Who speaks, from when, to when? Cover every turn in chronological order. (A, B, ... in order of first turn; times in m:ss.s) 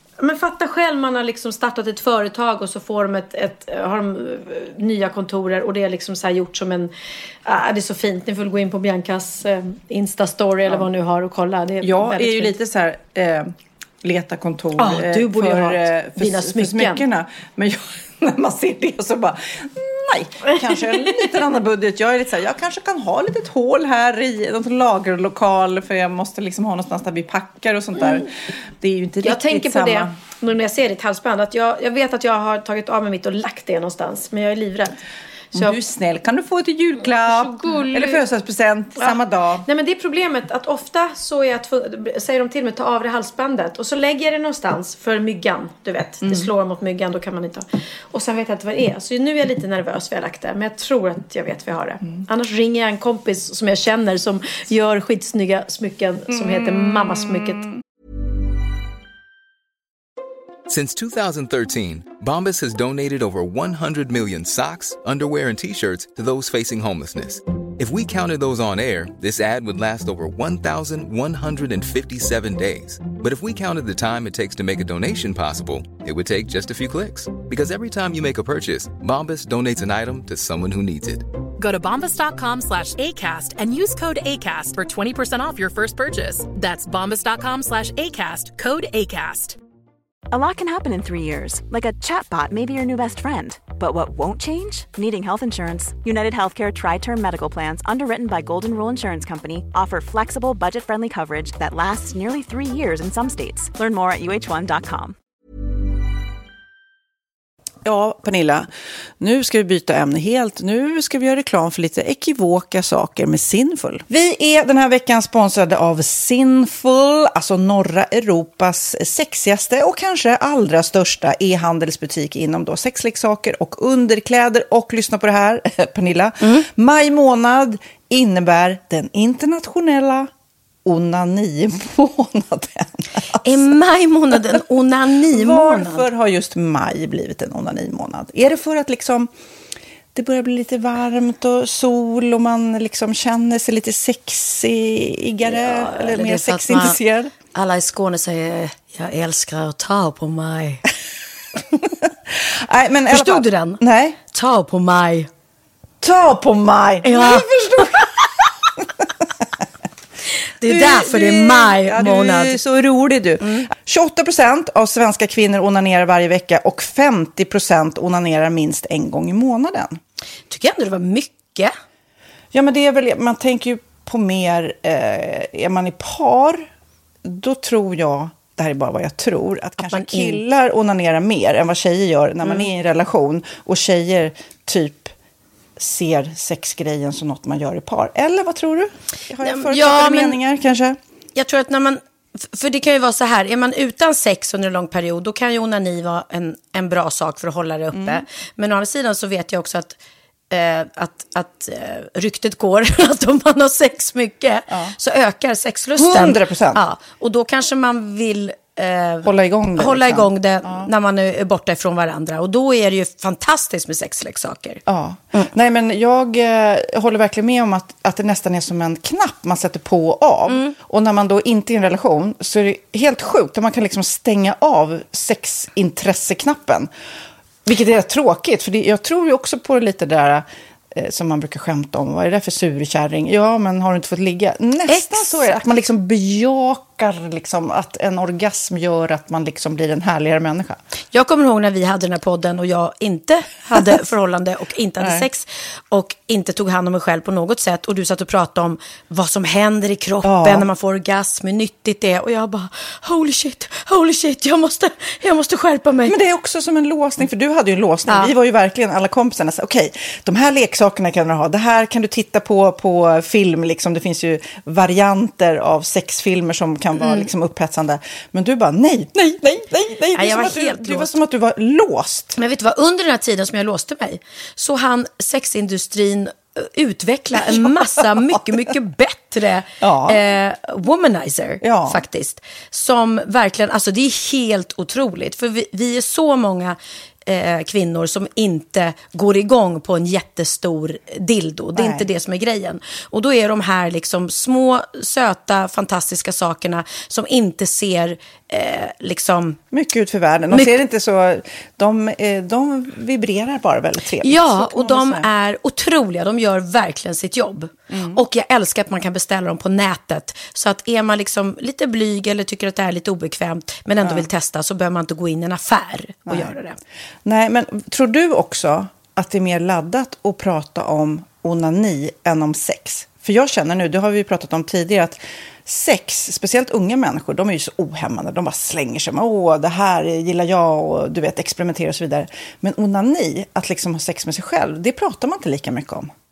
0:00.2-0:06.9 A
0:07.4-0:12.6 A
0:11.8-0:13.5 B
0:14.0-0:30.1 B
0:14.8-0:17.0 A
0:29.2-0:35.0 A
0:35.5-0:39.6 B
0:37.0-0:38.2 A
0:39.0-0:57.6 A
0:46.2-0:46.5 B
0:56.3-0:57.7 B
1:00.7-1:21.3 C
1:21.6-1:29.6 D
1:30.3-1:45.1 E
1:47.8-1:48.7 B
1:49.2-2:10.3 B
2:10.8-2:13.6 B
2:13.4-2:16.1 A
2:15.3-2:19.3 B
2:20.1-2:27.3 B
2:25.4-2:27.0 A
2:27.5-2:30.8 A
2:32.3-2:34.2 B
2:33.1-2:35.3 A
2:36.0-2:39.0 B
2:37.0-2:38.0 A
2:40.6-2:42.6 A
2:40.6-2:50.0 B
2:43.4-2:43.7 A
2:50.5-2:51.7 A
2:52.5-2:56.7 B
2:57.2-3:05.1 B
2:59.8-3:00.4 A
3:05.8-3:11.0 B
3:09.4-3:10.4 A
3:11.4-3:20.0 A
3:17.9-3:18.2 B
3:20.5-3:34.8 A
3:26.0-3:26.8 B
3:29.2-3:30.9 B
3:34.8-3:46.9 B
3:40.5-3:40.7 A
3:47.6-4:00.8 B
3:54.9-3:55.5 A
4:01.1-4:16.2 A
4:05.0-4:05.2 B
4:10.2-4:10.7 B
4:16.0-4:32.4 B
4:30.1-4:31.1 A
4:32.4-4:59.6 A
4:37.4-4:38.0 B
4:39.8-4:40.2 B
4:41.6-4:42.0 B
4:51.7-4:52.1 B
4:59.7-5:05.3 B
5:00.5-5:00.8 A
5:04.2-5:16.8 A
5:07.9-5:08.2 B
5:16.3-5:16.5 B
5:17.2-5:36.1 B